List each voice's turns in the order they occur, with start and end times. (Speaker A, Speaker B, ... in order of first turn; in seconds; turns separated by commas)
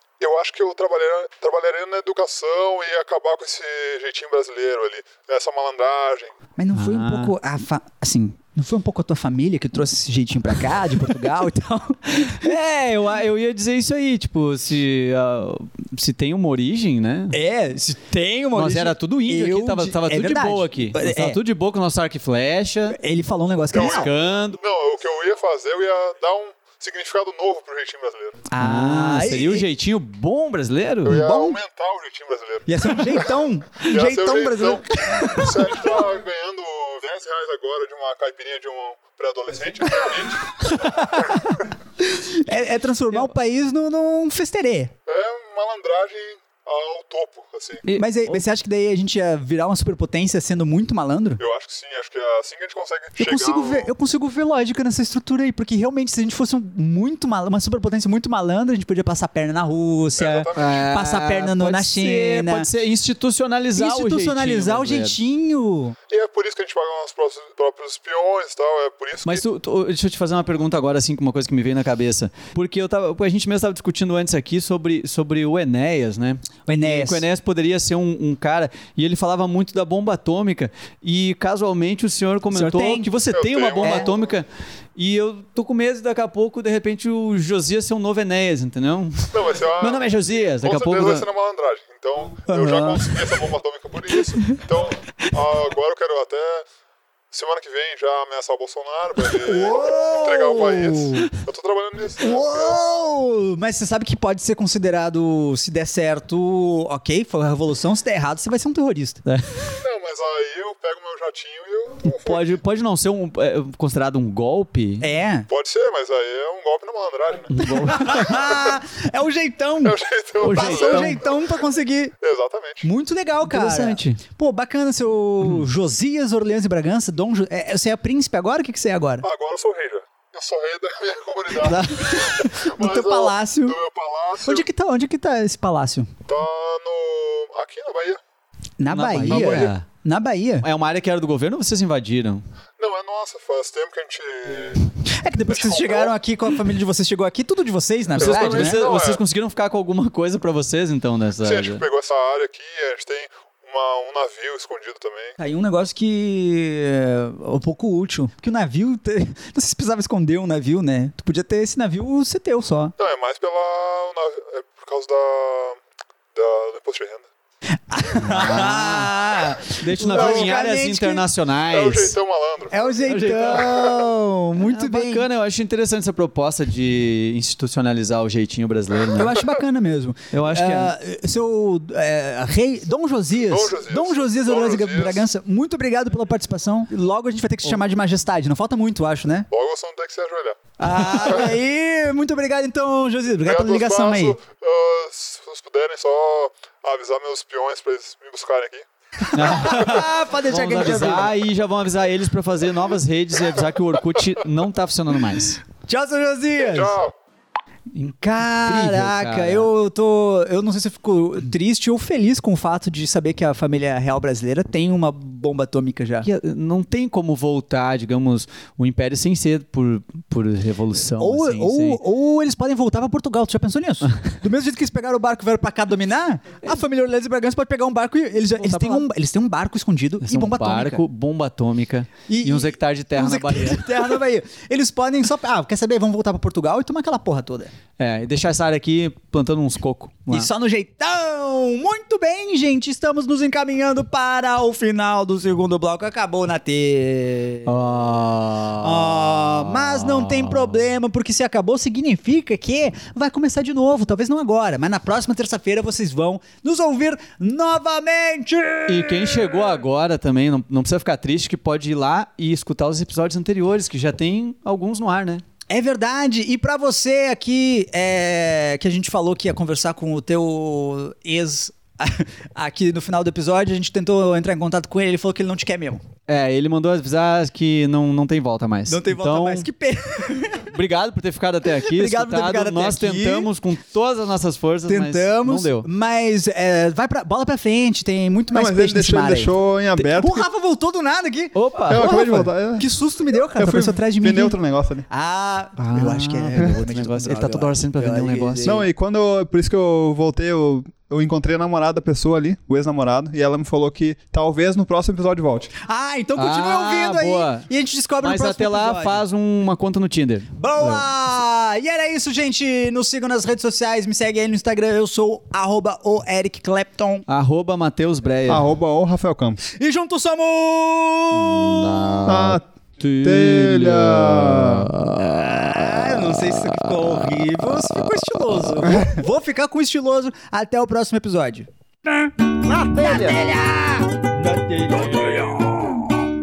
Speaker A: 0.2-6.3, Speaker B: 6.6-12.6, Speaker C: 6.8-7.3, Speaker C: 12.1-17.3, Speaker B: 17.3-21.4, Speaker C: 18.6-23.0, Speaker B: 22.9-24.1, Speaker A: 23.7-28.4, Speaker C: 23.8-24.6, Speaker B: 28.5-29.6, Speaker C: 28.6-31.3, Speaker A: 31.1-41.5, Speaker B: 31.1-31.6, Speaker B: 32.7-36.0, Speaker B: 40.5-44.9, Speaker A: 45.1-47.9, Speaker C: 47.9-48.4, Speaker B: 47.9-51.4, Speaker A: 51.4-53.9, Speaker B: 53.2-62.7, Speaker A: 60.2-60.8, Speaker C: 60.5-65.2, Speaker B: 63.7-66.0, Speaker A: 66.1-69.4, Speaker C: 69.2-91.3, Speaker B: 76.7-77.2, Speaker B: 82.5-83.1, Speaker A: 83.3-84.1, Speaker B: 83.8-84.1, Speaker A: 89.3-96.7, Speaker C: 92.5-93.1, Speaker B: 92.5-92.9, Speaker A: 97.3-102.8, Speaker B: 99.4-101.3, Speaker B: 102.2-109.3, Speaker A: 109.8-112.6, Speaker C: 112.0-115.1, Speaker B: 115.0-115.5, Speaker A: 115.5-118.8, Speaker C: 117.5-118.4, Speaker B: 117.7-122.2, Speaker A: 119.8-121.7, Speaker C: 120.4-121.2, Speaker A: 122.2-122.9, Speaker B: 122.8-129.3, Speaker C: 123.5-124.2, Speaker A: 129.2-134.7, Speaker C: 131.6-132.5, Speaker B: 131.7-133.8, Speaker B: 134.4-136.1, Speaker A: 136.3-138.2, Speaker B: 138.8-140.7, Speaker C: 138.9-139.9, Speaker C: 140.6-142.4, Speaker A: 142.8-144.9, Speaker B: 145.1-148.8, Speaker A: 145.5-146.2, Speaker C: 148.1-151.8, Speaker A: 148.2-149.2, Speaker A: 151.4-155.4, Speaker B: 155.4-162.9, Speaker A: 163.0-165.8, Speaker A: 166.3-167.3, Speaker B: 167.9-171.2, Speaker C: 168.2-172.2, Speaker A: 170.1-170.5, Speaker A: 171.7-173.1, Speaker B: 172.7-175.2, Speaker C: 173.1-173.9, Speaker A: 173.6-174.1, Speaker C: 174.6-179.4, Speaker B: 179.2-189.5, Speaker C: 180.3-180.9, Speaker A: 183.4-185.3, Speaker A: 189.5-190.6, Speaker B: 190.8-194.4, Speaker A: 191.2-191.5, Speaker A: 193.4-198.9, Speaker B: 199.2-201.3, Speaker C: 199.3-205.6, Speaker B: 205.9-207.0, Speaker A: 206.6-207.1, Speaker B: 208.0-216.3, Speaker C: 208.4-209.7, Speaker C: 216.2-222.0, Speaker B: 221.2-231.0, Speaker C: 228.5-229.1, Speaker C: 230.2-234.2, Speaker B: 232.3-237.7, Speaker C: 238.0-240.5, Speaker B: 240.3-247.9, Speaker C: 247.7-250.7, Speaker B: 248.7-259.6, Speaker C: 258.9-265.4, Speaker B: 265.7-276.0, Speaker C: 276.3-279.7, Speaker B: 278.9-280.7, Speaker C: 280.7-285.9, Speaker B: 281.8-283.5, Speaker B: 284.9-294.6, Speaker D: 288.5-290.5, Speaker C: 291.6-292.1, Speaker D: 291.9-292.9, Speaker D: 293.6-295.1, Speaker B: 295.1-298.9, Speaker C: 295.8-298.8, Speaker D: 298.6-305.7, Speaker B: 305.8-309.2, Speaker C: 306.4-307.7, Speaker C: 308.2-311.1, Speaker B: 310.6-317.2, Speaker C: 317.3-318.7, Speaker D: 318.5-319.6, Speaker B: 319.7-322.3, Speaker C: 321.8-325.9, Speaker D: 322.2-322.6, Speaker D: 323.2-324.9, Speaker B: 325.4-336.2, Speaker C: 333.0-333.4